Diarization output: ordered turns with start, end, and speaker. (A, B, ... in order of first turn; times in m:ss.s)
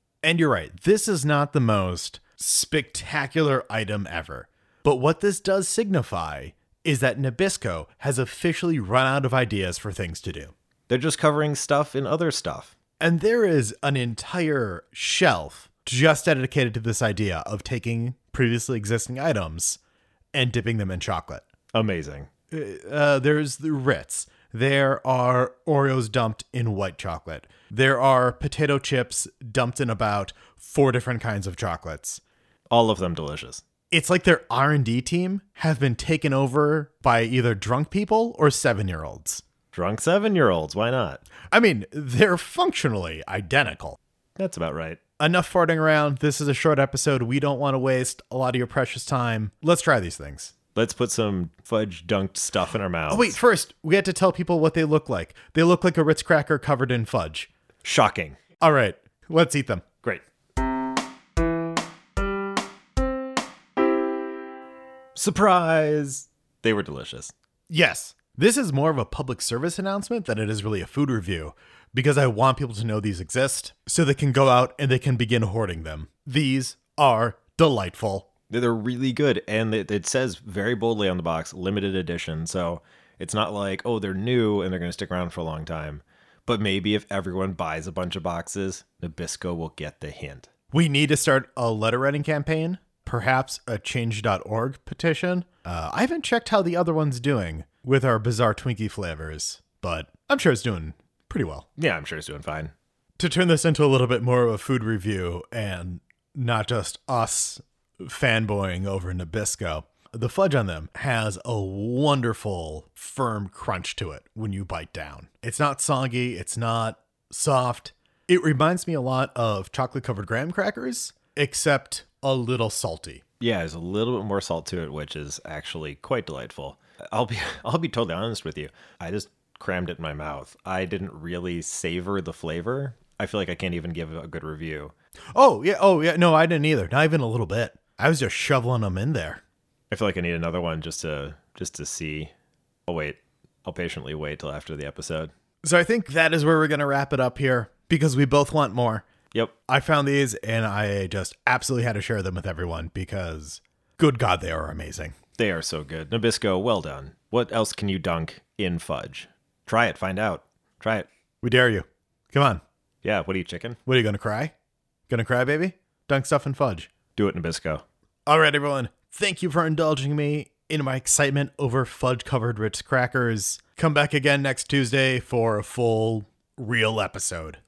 0:00.2-0:10.5 A
0:10.9-0:12.7 B
0:13.0-0:19.8 A
0:20.3-0:21.4 A
0:21.7-0:22.3 B
0:22.5-0:32.2 A
0:32.7-0:33.6 B
0:33.9-0:39.4 A
0:39.7-0:41.2 B
0:41.5-0:44.0 A
0:44.4-0:45.0 B
0:45.2-0:50.5 A
0:50.7-0:53.4 B
0:53.1-0:57.5 A
0:57.8-0:58.4 B
0:58.6-0:59.8 A
1:05.1-1:07.3 B
1:07.7-1:18.3 A
1:18.5-1:30.5 B
1:30.7-1:41.7 A
1:41.8-1:42.7 B
1:43.2-2:03.2 A
2:03.4-2:14.9 B
2:15.3-2:19.4 A
2:19.9-2:22.3 B
2:22.9-2:25.3 B
2:25.6-2:29.0 A
2:29.7-2:35.1 A
2:35.4-2:41.1 B
2:41.4-2:42.6 A
2:43.0-2:43.8 B
2:43.8-2:44.5 A
2:45.1-2:46.9 A
2:47.2-2:47.8 B
2:48.2-2:57.6 A